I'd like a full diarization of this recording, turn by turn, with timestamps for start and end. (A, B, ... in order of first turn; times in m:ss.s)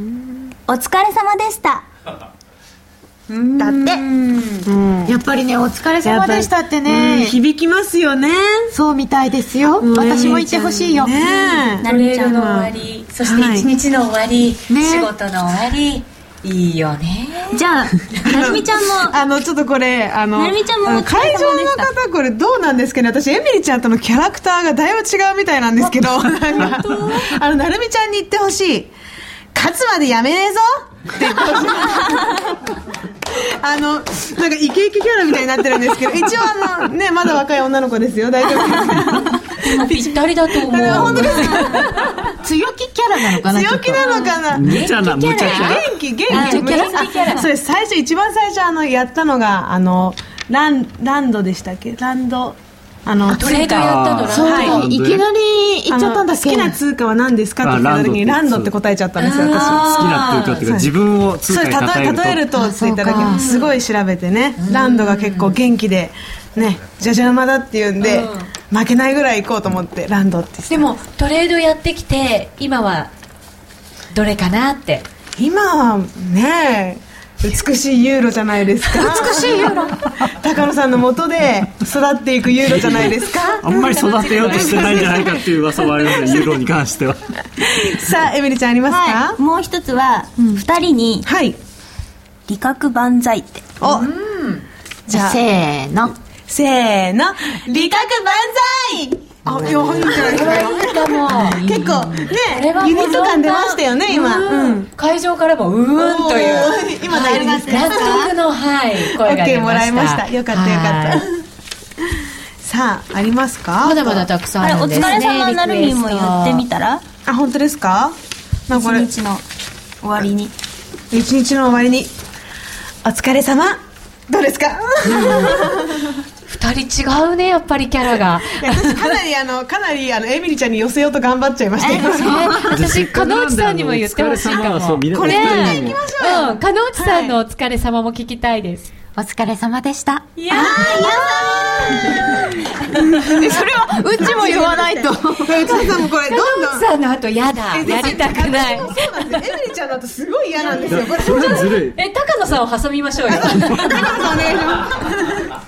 0:00.7-0:01.9 A
0:03.6-0:04.0 A
0:04.7-0:05.2 B
0:05.1-0:07.4 C
0:06.0-0:08.7 B
0:08.7-0:11.2 C
0:09.8-0:12.7 B
0:11.6-0:12.5 A
0:11.8-0:17.6 D
0:13.2-0:13.7 B
0:14.7-0:15.1 C
0:17.5-0:19.2 A
0:18.2-0:28.9 B
0:20.4-0:21.9 A
0:26.5-0:27.3 D
0:29.6-0:32.5 B
0:33.3-0:42.0 B
0:39.6-0:42.2 D
0:40.8-0:41.8 A
0:42.4-0:44.3 C
0:43.4-0:44.8 B
0:44.0-0:47.5 D
0:44.5-0:45.8 E
0:45.4-0:54.8 B
0:46.3-0:47.4 C
0:53.3-0:54.8 D
0:53.7-0:55.2 E
0:54.3-0:56.8 C
0:55.9-1:00.9 B
0:57.6-0:58.7 E
0:59.2-1:00.6 D
0:59.5-1:02.5 E
1:01.5-1:10.8 B
1:02.6-1:03.4 C
1:03.2-1:03.8 D
1:04.6-1:05.6 D
1:08.0-1:08.5 D
1:10.7-1:13.1 D
1:14.1-1:15.1 D
1:15.4-1:23.8 B
1:19.0-1:19.9 C
1:19.0-1:19.8 D
1:22.7-1:23.1 E
1:23.3-1:25.4 D
1:23.6-1:27.2 E
1:24.4-1:25.3 B
1:27.6-1:29.4 B
1:28.9-1:31.3 A
1:31.2-1:31.6 B
1:32.5-1:33.8 A
1:33.8-1:34.1 B
1:33.8-1:34.6 D
1:35.1-1:35.4 B
1:35.1-1:36.2 C
1:36.5-1:44.9 B
1:37.7-1:38.6 A
1:40.0-1:51.2 D
1:46.0-1:48.3 B
1:47.1-1:48.3 A
1:49.0-1:51.4 B
1:52.6-1:54.3 B
1:53.8-1:56.6 D
1:54.6-1:57.0 A
1:57.3-1:58.2 B
1:58.7-1:59.1 B
1:58.7-1:59.4 A
2:00.0-2:00.5 A
2:01.1-2:02.1 B
2:03.0-2:06.2 B
2:06.5-2:09.2 D
2:08.6-2:12.6 B
2:11.9-2:18.9 D
2:11.9-2:12.5 C
2:12.7-2:16.0 E
2:15.1-2:17.4 B
2:19.2-2:20.3 C
2:20.4-2:21.2 D
2:20.5-2:22.4 B
2:20.5-2:22.5 A
2:23.0-2:25.9 C
2:24.2-2:24.8 B
2:24.3-2:25.1 A
2:25.4-2:26.8 B
2:26.3-2:29.4 D
2:27.7-2:31.8 B
2:30.9-2:32.0 E
2:30.9-2:34.4 D
2:33.3-2:35.5 B